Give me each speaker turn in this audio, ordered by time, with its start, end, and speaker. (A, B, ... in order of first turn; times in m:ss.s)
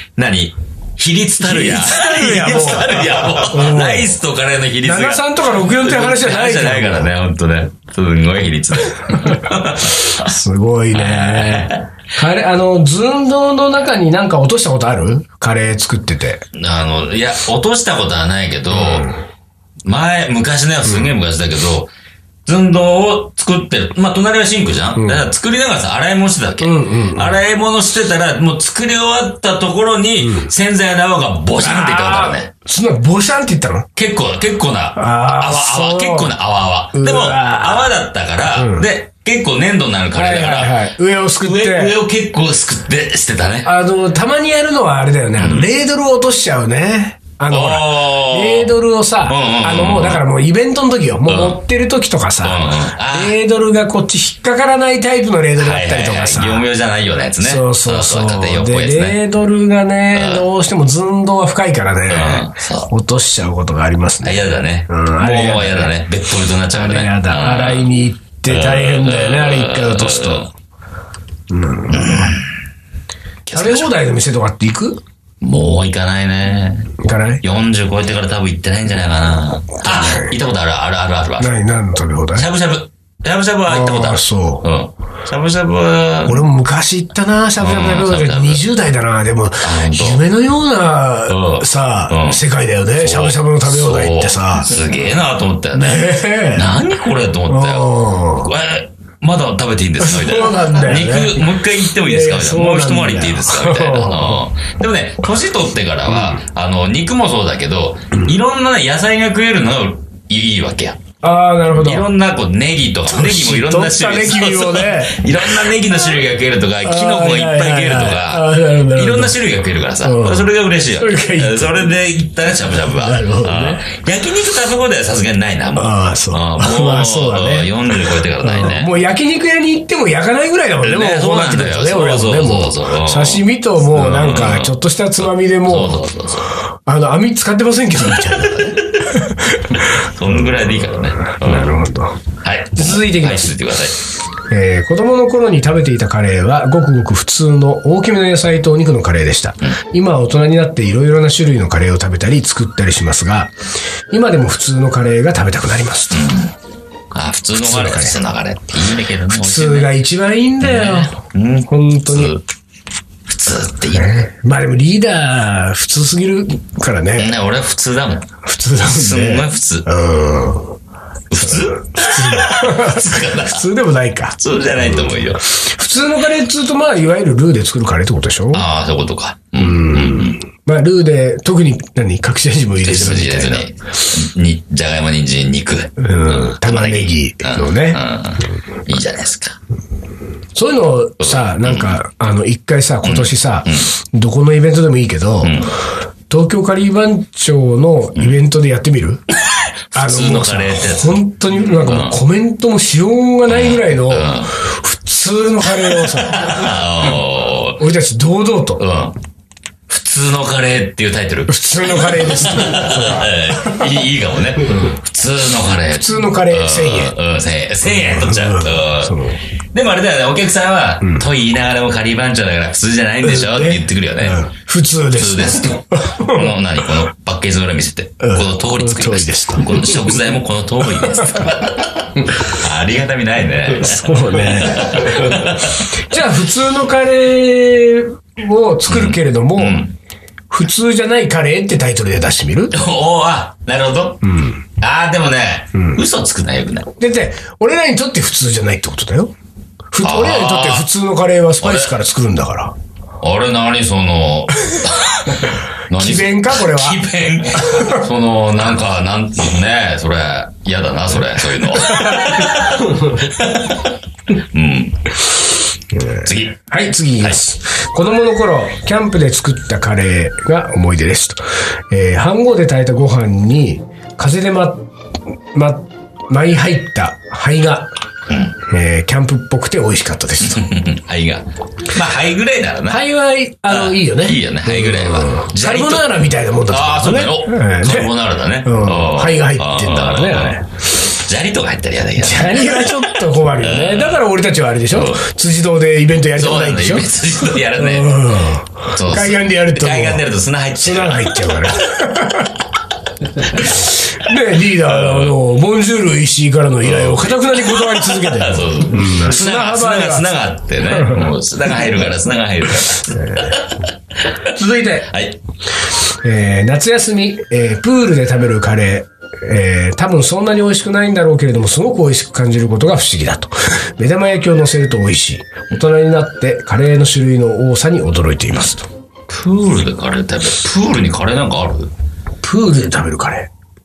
0:00.2-0:10.3 A
0:01.4-0:04.2 B
0:04.8-0:07.1 B
0:10.0-0:16.4 B
0:10.9-0:11.8 A
0:16.5-0:19.1 A
0:18.7-0:19.2 B
0:19.8-0:21.9 A
0:22.4-0:32.5 A
0:25.0-0:25.2 B
0:26.6-0:27.3 B
0:30.2-0:30.5 B
0:31.6-0:33.9 B
0:34.0-0:40.8 A
0:35.0-0:36.3 B
0:36.9-0:37.9 B
0:38.5-0:38.9 B
0:40.1-0:42.0 B
0:41.4-0:43.7 A
0:43.6-0:56.6 B
0:45.4-0:45.7 A
0:47.5-0:48.7 A
0:49.2-0:50.2 A
0:51.3-0:51.6 A
0:52.4-0:53.4 A
0:55.6-0:59.2 A
0:57.4-1:05.9 B
1:00.1-1:00.4 A
1:02.1-1:02.9 A
1:04.2-1:07.9 A
1:06.7-1:10.5 B
1:08.5-1:10.5 A
1:11.5-1:12.4 B
1:11.9-1:12.5 A
1:13.4-1:13.9 A
1:13.5-1:15.0 B
1:15.4-1:21.5 A
1:17.0-1:17.4 B
1:19.8-1:20.4 B
1:21.4-1:22.5 B
1:22.3-1:26.4 A
1:23.7-1:24.7 B
1:26.2-1:34.7 B
1:27.6-1:28.6 A
1:29.6-1:30.2 A
1:31.3-1:32.4 A
1:33.0-1:51.0 A
1:35.7-1:36.7 B
1:37.5-1:38.5 B
1:40.0-1:44.4 B
1:46.1-1:46.4 B
1:51.2-1:52.1 B
1:51.7-2:09.0 A
1:53.0-1:55.7 B
1:56.8-1:59.4 B
2:00.0-2:01.9 B
2:02.8-2:03.8 B
2:05.8-2:07.7 B
2:08.4-2:16.1 B
2:10.8-2:16.5 A
2:16.8-2:19.9 B
2:18.2-2:19.2 A
2:19.7-2:21.8 A
2:21.2-2:22.2 B
2:22.4-2:24.0 A
2:22.7-2:23.6 B
2:24.5-2:33.5 B
2:34.1-2:36.3 B
2:36.1-2:36.5 A
2:37.1-2:40.0 A
2:37.6-2:38.2 B
2:39.3-2:41.2 B
2:40.6-2:42.4 A
2:41.7-2:42.4 B
2:43.3-2:44.2 A
2:43.9-2:47.3 B
2:47.2-2:48.3 A
2:48.4-2:50.8 B
2:48.8-2:49.9 A
2:51.3-2:53.6 A
2:51.3-2:58.6 B
2:54.4-2:55.4 A
2:58.5-3:00.4 A
2:59.6-3:03.7 B
3:02.8-3:09.6 A
3:06.0-3:08.0 B
3:10.5-3:15.7 B
3:11.2-3:12.0 A
3:13.0-3:13.9 A
3:15.4-3:15.7 A
3:16.3-3:19.2 B
3:19.9-3:22.2 A
3:19.9-3:26.8 B
3:23.5-3:24.5 A
3:25.8-3:27.8 A
3:27.8-3:28.8 B
3:28.8-3:29.2 A
3:29.9-3:39.2 A
3:31.5-3:33.9 B
3:34.7-3:34.9 B
3:35.9-3:37.2 B
3:37.8-3:39.4 B
3:39.7-3:44.4 A
3:43.2-3:46.5 B
3:45.1-3:55.9 A
3:48.2-3:49.9 B
3:51.2-3:51.7 B
3:53.7-3:59.8 B
3:58.9-3:59.9 A
4:00.5-4:02.7 B
4:02.7-4:04.2 A
4:04.2-4:04.6 B
4:04.8-4:06.9 A
4:05.7-4:06.0 B
4:07.0-4:09.3 B
4:09.9-4:12.7 B
4:10.0-4:10.9 A
4:11.6-4:12.0 A
4:13.2-4:23.9 A
4:15.9-4:17.0 B
4:17.6-4:18.0 B
4:21.8-4:23.3 B
4:24.5-4:25.1 A
4:25.9-4:34.9 B
4:26.2-4:26.6 A
4:35.5-4:37.9 B
4:38.3-4:38.5 A
4:38.6-4:40.6 B
4:40.4-4:43.0 A
4:42.9-4:50.6 B
4:43.7-4:54.3 A
4:52.2-5:00.2 B
4:54.9-4:55.2 A
4:56.4-4:58.4 A
4:58.9-5:01.8 A
5:00.8-5:02.6 B
5:03.5-5:11.3 B
5:04.8-5:05.4 A
5:06.8-5:13.8 A
5:13.1-5:13.6 B
5:14.5-5:15.1 B
5:15.1-5:15.4 A
5:16.2-5:28.9 B
5:29.3-5:31.9 A
5:32.4-5:33.5 B